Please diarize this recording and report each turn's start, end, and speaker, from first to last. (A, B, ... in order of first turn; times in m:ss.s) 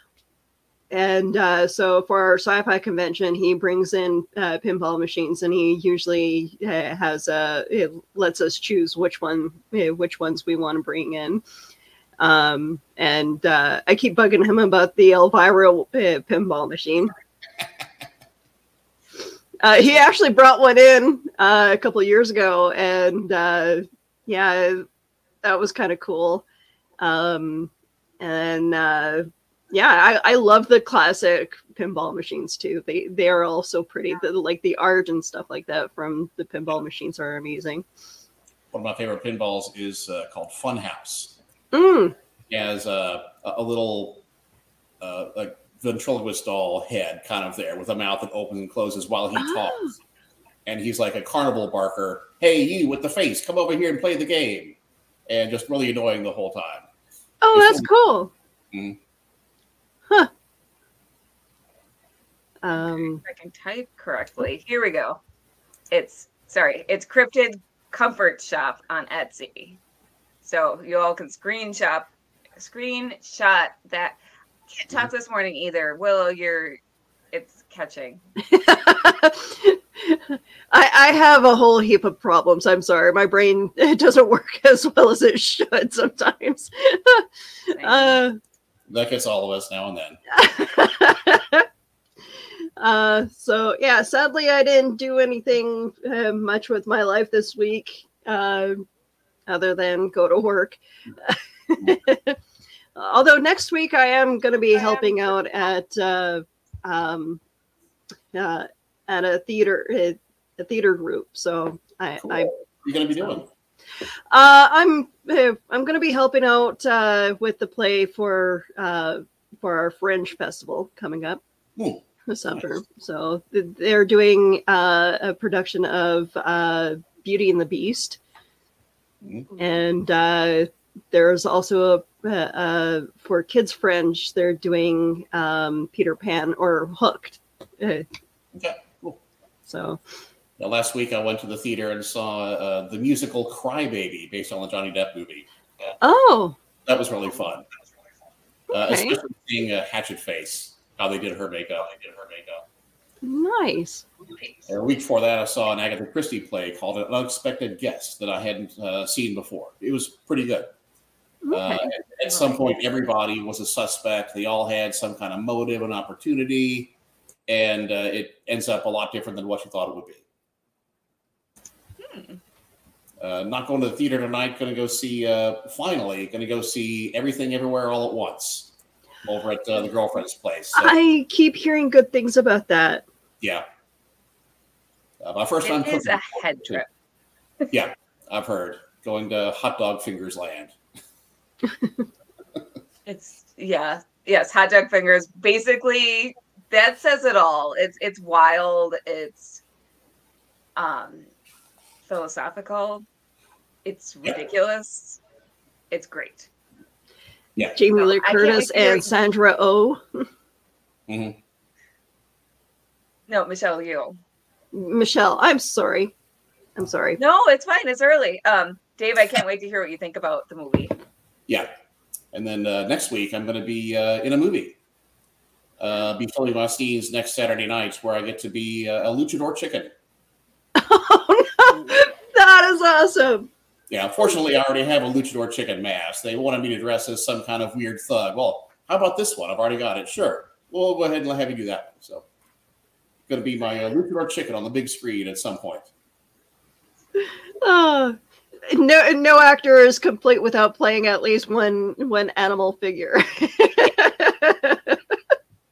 0:00.9-0:11.4 A
0:12.2-0:17.1 A
0:19.6-0:24.8 A
0:25.4-0:26.4 A
0:27.0-0:37.8 A
0:38.7-0:41.4 B
0:41.7-0:42.1 A
0:42.5-0:44.2 B
0:45.0-0:50.0 B
0:49.4-0:49.9 A
0:50.6-0:54.8 B
0:55.3-0:56.8 B
0:57.4-0:58.3 A
0:57.5-0:57.9 B
0:58.7-0:59.0 B
1:02.6-1:03.2 A
1:02.7-1:05.2 C
1:05.9-1:09.8 C
1:10.4-1:14.2 C
1:14.7-1:16.8 C
1:17.3-1:18.2 C
1:18.4-1:28.4 A
1:27.7-1:28.2 C
1:28.9-1:30.2 B
1:30.3-1:31.7 A
1:32.8-1:38.9 A
1:39.5-1:42.4 A
1:42.9-1:47.4 A
1:48.3-1:52.5 A
1:52.2-1:53.5 B
1:53.1-1:53.4 A
1:54.3-2:01.4 A
2:01.8-2:02.6 B
2:02.3-2:08.2 A
2:09.6-2:18.0 A
2:18.5-2:19.2 B
2:19.6-2:20.0 A
2:20.6-2:25.9 B
2:26.0-2:26.6 A
2:26.8-2:27.6 B
2:28.7-2:32.6 B
2:28.8-2:29.2 A
2:33.2-2:34.0 A
2:34.7-2:40.7 B
2:41.4-2:41.8 A
2:41.5-2:46.9 B
2:42.3-2:42.7 C
2:47.5-2:50.2 B
2:52.0-2:52.4 C
2:53.2-2:58.7 B
2:59.2-3:00.9 B
3:00.7-3:03.0 A
3:05.2-3:06.8 B
3:05.6-3:06.9 C
3:07.7-3:10.8 B
3:13.0-3:19.6 C
3:20.8-3:21.3 C
3:22.0-3:23.0 C
3:23.8-3:25.2 C
3:25.9-3:26.5 C
3:27.8-3:30.3 A
3:27.9-3:29.2 C
3:31.1-3:31.4 B
3:33.3-3:34.2 C
3:34.7-3:36.1 A
3:36.8-3:37.2 A
3:37.2-3:40.9 C
3:42.3-3:44.8 B
3:45.8-3:49.9 B
3:50.8-3:53.5 A
3:53.9-4:02.2 B
4:03.3-4:05.9 B
4:07.2-4:15.1 A